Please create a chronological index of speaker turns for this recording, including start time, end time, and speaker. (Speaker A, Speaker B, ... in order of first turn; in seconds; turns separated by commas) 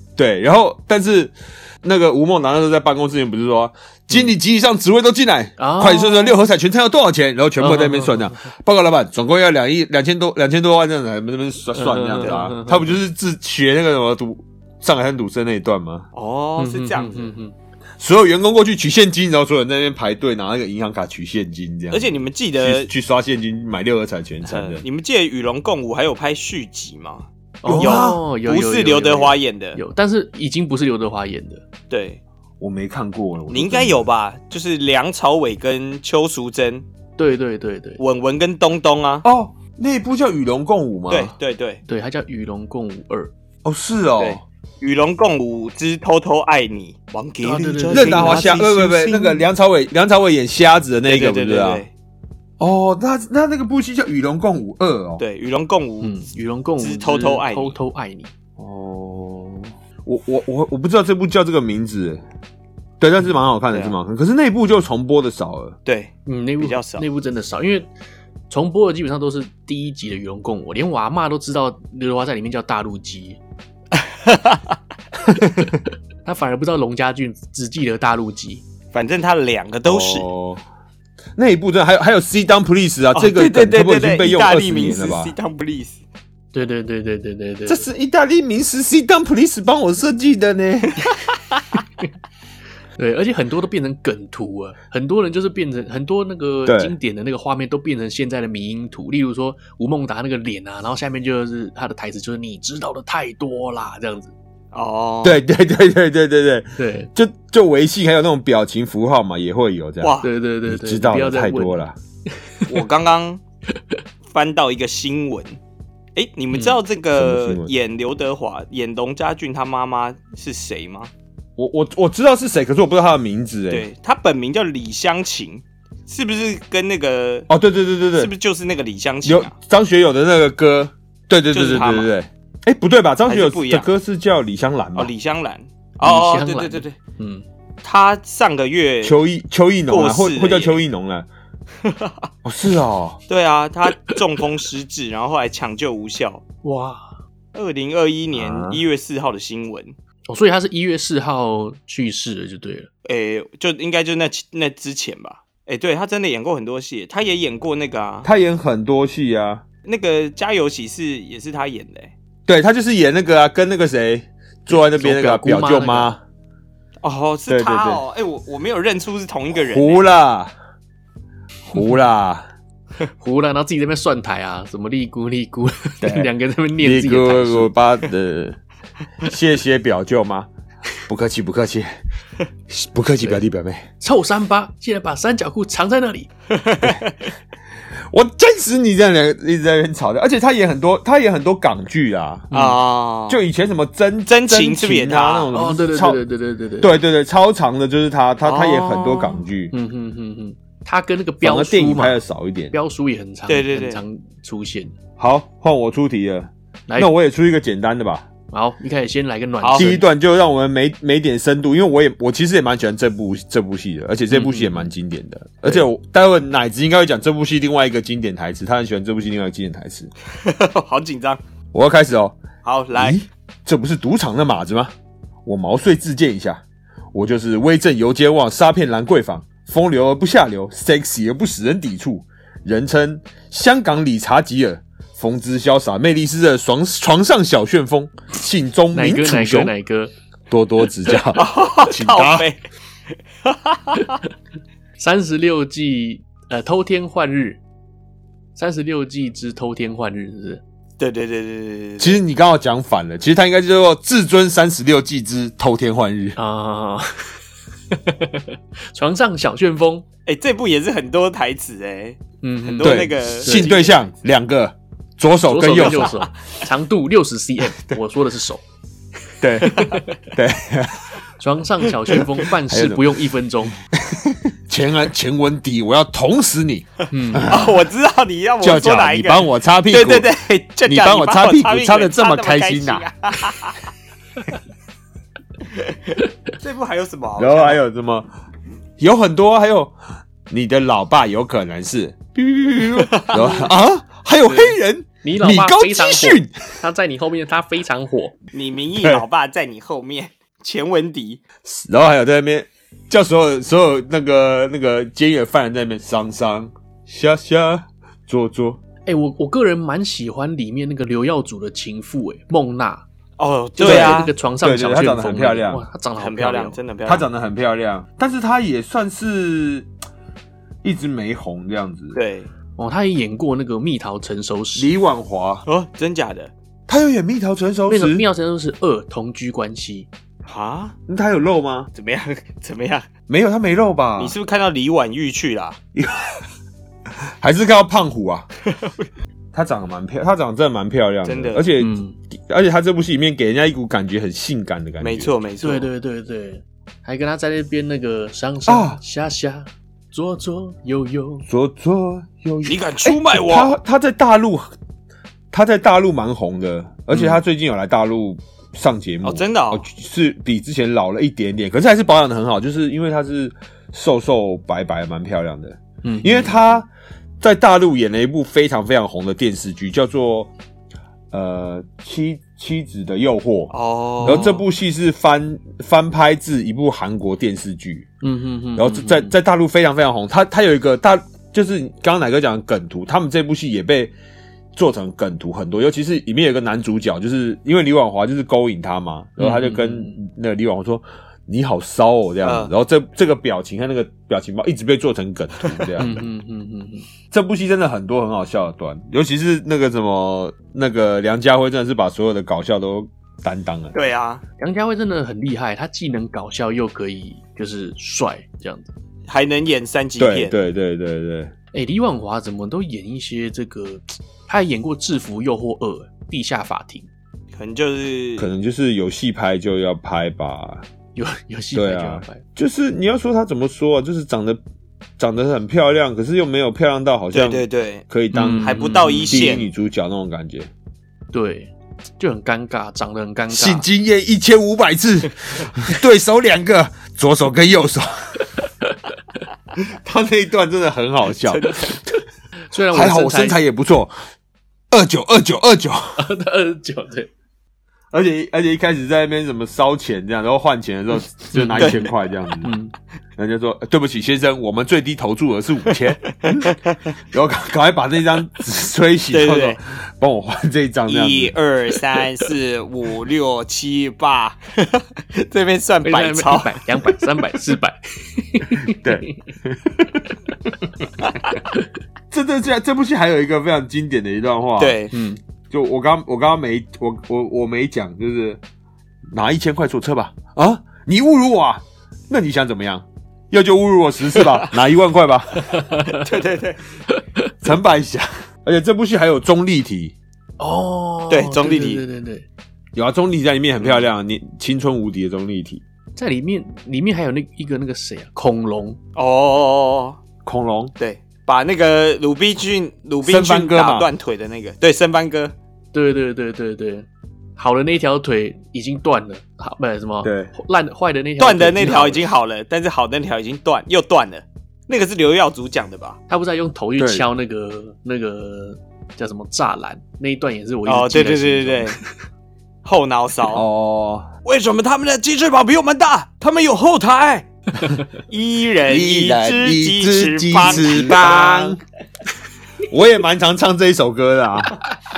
Speaker A: 0.2-16.1, Speaker B: 5.6-6.4, Speaker B: 7.6-8.4, Speaker B: 11.8-13.0, Speaker C: 16.1-17.3, Speaker B: 16.6-17.5, Speaker A: 18.0-24.9, Speaker C: 21.9-22.9, Speaker C: 24.4-29.8, Speaker B: 27.6-31.6, Speaker A: 27.6-28.2, Speaker C: 31.9-32.2, Speaker A: 32.6-34.1, Speaker C: 33.5-36.9, Speaker B: 37.2-38.0, Speaker C: 38.0-39.2, Speaker A: 39.2-41.3, Speaker C: 41.1-41.8, Speaker B: 41.9-43.3, Speaker A: 43.6-44.4, Speaker C: 44.2-48.6, Speaker B: 47.4-49.4, Speaker A: 47.9-51.9, Speaker C: 51.1-51.9, Speaker A: 52.6-55.2, Speaker C: 55.2-56.1, Speaker B: 56.0-58.3, Speaker C: 56.8-57.8, Speaker A: 58.6-62.2, Speaker A: 63.0-65.8, Speaker C: 63.7-64.0, Speaker C: 65.9-67.0, Speaker B: 66.3-67.9, Speaker B: 68.5-73.4, Speaker C: 74.0-74.8, Speaker B: 76.2-78.7, Speaker C: 78.9-80.3, Speaker A: 79.8-80.6, Speaker A: 81.4-85.3, Speaker C: 83.1-86.0, Speaker B: 86.5-87.9, Speaker A: 87.7-91.1, Speaker B: 93.0-104.3, Speaker A: 96.7-97.0, Speaker C: 104.7-105.4, Speaker A: 105.2-112.0, Speaker B: 106.8-107.1, Speaker C: 110.0-110.3, Speaker B: 110.2-111.8, Speaker B: 112.4-112.7, Speaker C: 112.7-113.4, Speaker C: 114.3-115.6, Speaker C: 116.2-121.1, Speaker B: 116.5-116.8, Speaker A: 117.2-117.7, Speaker A: 121.6-123.9, Speaker C: 123.7-127.5, Speaker A: 127.5-128.3, Speaker C: 128.2-129.5, Speaker A: 129.2-135.1, Speaker C: 131.5-132.1, Speaker C: 133.3-133.9, Speaker C: 135.0-137.0, Speaker B: 136.0-137.4, Speaker C: 137.8-139.2, Speaker A: 139.0-141.3, Speaker C: 139.9-140.8, Speaker C: 141.8-142.3, Speaker A: 142.4-143.2, Speaker C: 143.3-146.4, Speaker B: 146.6-147.1, Speaker C: 147.5-149.9, Speaker A: 148.3-148.8, Speaker B: 150.3-152.9, Speaker C: 153.1-158.3, Speaker A: 158.2-159.7, Speaker C: 159.8-162.1, Speaker A: 162.5-166.2, Speaker B: 164.7-166.1, Speaker C: 167.0-170.0, Speaker A: 167.5-168.0, Speaker A: 169.6-170.5, Speaker A: 171.7-172.5, Speaker B: 173.2-177.7, Speaker A: 176.0-178.6, Speaker A: 179.2-180.5, Speaker A: 181.1-182.0, Speaker A: 182.7-183.9, Speaker B: 184.0-186.3, Speaker C: 186.5-187.2, Speaker A: 188.1-192.5, Speaker B: 192.5-192.8, Speaker C: 192.5-193.4, Speaker A: 193.3-196.2, Speaker C: 194.3-195.5, Speaker B: 195.5-197.0, Speaker A: 196.8-199.7, Speaker C: 198.4-199.4, Speaker B: 199.7-204.9, Speaker A: 201.4-202.7, Speaker C: 203.5-204.0, Speaker A: 205.2-208.3, Speaker B: 208.5-210.1, Speaker C: 209.6-209.9, Speaker A: 209.8-220.1, Speaker B: 214.3-214.9, Speaker C: 220.4-221.4, Speaker A: 221.7-222.4, Speaker C: 222.6-223.2, Speaker A: 222.9-224.9, Speaker A: 225.4-226.6, Speaker A: 227.1-239.7, Speaker B: 238.9-240.1, Speaker A: 240.5-242.5, Speaker C: 241.3-242.6, Speaker C: 243.4-244.2, Speaker B: 245.0-247.6, Speaker B: 248.6-250.6, Speaker C: 251.0-252.2, Speaker A: 252.0-256.4, Speaker B: 256.4-257.4, Speaker B: 257.9-260.1, Speaker C: 260.3-264.0, Speaker B: 262.4-263.8, Speaker A: 262.8-266.3, Speaker B: 265.4-268.6, Speaker C: 265.8-266.1, Speaker A: 269.4-271.2, Speaker B: 269.6-270.1, Speaker B: 271.4-273.8, Speaker A: 272.1-273.2, Speaker A: 273.9-277.8, Speaker B: 277.1-277.6, Speaker C: 277.5-283.9, Speaker A: 278.6-280.3, Speaker A: 280.9-283.1, Speaker C: 285.8-287.8, Speaker A: 287.4-288.3, Speaker A: 289.0-289.9, Speaker A: 290.5-296.5, Speaker C: 293.0-293.7, Speaker B: 293.4-293.6, Speaker B: 294.5-298.4, Speaker C: 298.5-301.4, Speaker A: 301.6-308.8, Speaker B: 309.1-313.1, Speaker C: 313.4-314.3, Speaker B: 313.8-316.8, Speaker A: 313.8-315.9, Speaker C: 316.2-317.3, Speaker A: 317.1-319.9, Speaker A: 320.8-322.2, Speaker C: 322.1-322.5, Speaker B: 322.8-324.9, Speaker A: 324.8-325.6, Speaker C: 325.7-326.5, Speaker A: 326.9-328.3, Speaker B: 327.9-330.1, Speaker C: 330.4-331.0, Speaker A: 331.1-331.9, Speaker C: 331.9-333.1, Speaker A: 333.3-334.4, Speaker C: 334.2-335.8, Speaker A: 335.9-336.4, Speaker A: 337.4-338.5, Speaker C: 338.7-339.1, Speaker A: 339.5-345.3, Speaker C: 341.2-341.6, Speaker B: 341.8-342.2, Speaker C: 345.0-345.9, Speaker B: 345.6-351.5, Speaker A: 348.7-349.0, Speaker A: 351.5-354.7, Speaker C: 352.6-353.8, Speaker A: 355.5-366.9, Speaker B: 357.1-357.4, Speaker C: 359.2-359.9, Speaker B: 366.0-366.7, Speaker A: 367.4-370.5, Speaker A: 371.3-373.7, Speaker C: 373.7-374.7, Speaker A: 374.2-378.1, Speaker B: 378.2-379.4, Speaker A: 378.8-384.1, Speaker A: 384.8-396.3, Speaker B: 389.4-390.2, Speaker C: 392.4-392.7, Speaker B: 396.0-397.1, Speaker A: 397.3-403.9, Speaker C: 403.9-404.4, Speaker B: 404.6-408.9, Speaker C: 409.3-410.6, Speaker A: 410.2-411.5, Speaker B: 411.7-417.1, Speaker C: 417.6-418.5, Speaker A: 418.4-420.9, Speaker B: 421.1-422.4, Speaker A: 421.7-424.6, Speaker A: 425.2-430.7, Speaker C: 427.3-428.1, Speaker B: 428.3-429.6, Speaker C: 428.6-429.7, Speaker B: 431.3-433.9, Speaker A: 433.5-438.4, Speaker A: 439.8-442.2, Speaker C: 441.5-442.0, Speaker B: 442.7-443.6, Speaker A: 442.9-444.1, Speaker A: 444.9-446.2, Speaker B: 446.2-447.3, Speaker A: 448.1-452.7, Speaker B: 451.5-452.1, Speaker C: 451.8-452.1, Speaker B: 452.6-452.9, Speaker A: 453.4-456.7, Speaker A: 457.3-461.6, Speaker C: 459.3-459.8, Speaker C: 461.1-467.1, Speaker B: 466.0-469.4, Speaker A: 468.7-470.4, Speaker A: 472.3-475.0, Speaker C: 474.8-475.1, Speaker B: 475.1-475.4, Speaker A: 475.7-478.6, Speaker A: 479.3-485.7, Speaker C: 484.4-484.7, Speaker B: 485.6-486.3, Speaker C: 486.1-486.8, Speaker B: 487.1-487.5, Speaker A: 487.6-490.1, Speaker B: 490.6-492.5, Speaker C: 491.3-492.0, Speaker A: 492.9-495.8, Speaker C: 493.8-494.1, Speaker B: 496.2-499.0, Speaker C: 499.1-500.2, Speaker A: 500.4-500.9, Speaker C: 501.0-505.5, Speaker A: 503.2-504.1, Speaker B: 505.9-512.3, Speaker A: 510.2-510.5, Speaker C: 511.4-516.2, Speaker B: 516.3-522.0, Speaker A: 517.0-517.3, Speaker C: 520.9-522.0, Speaker C: 522.8-523.6, Speaker A: 523.5-524.3, Speaker C: 524.5-527.5, Speaker C: 528.2-531.8, Speaker A: 528.9-531.8, Speaker B: 530.7-531.2, Speaker A: 532.9-534.8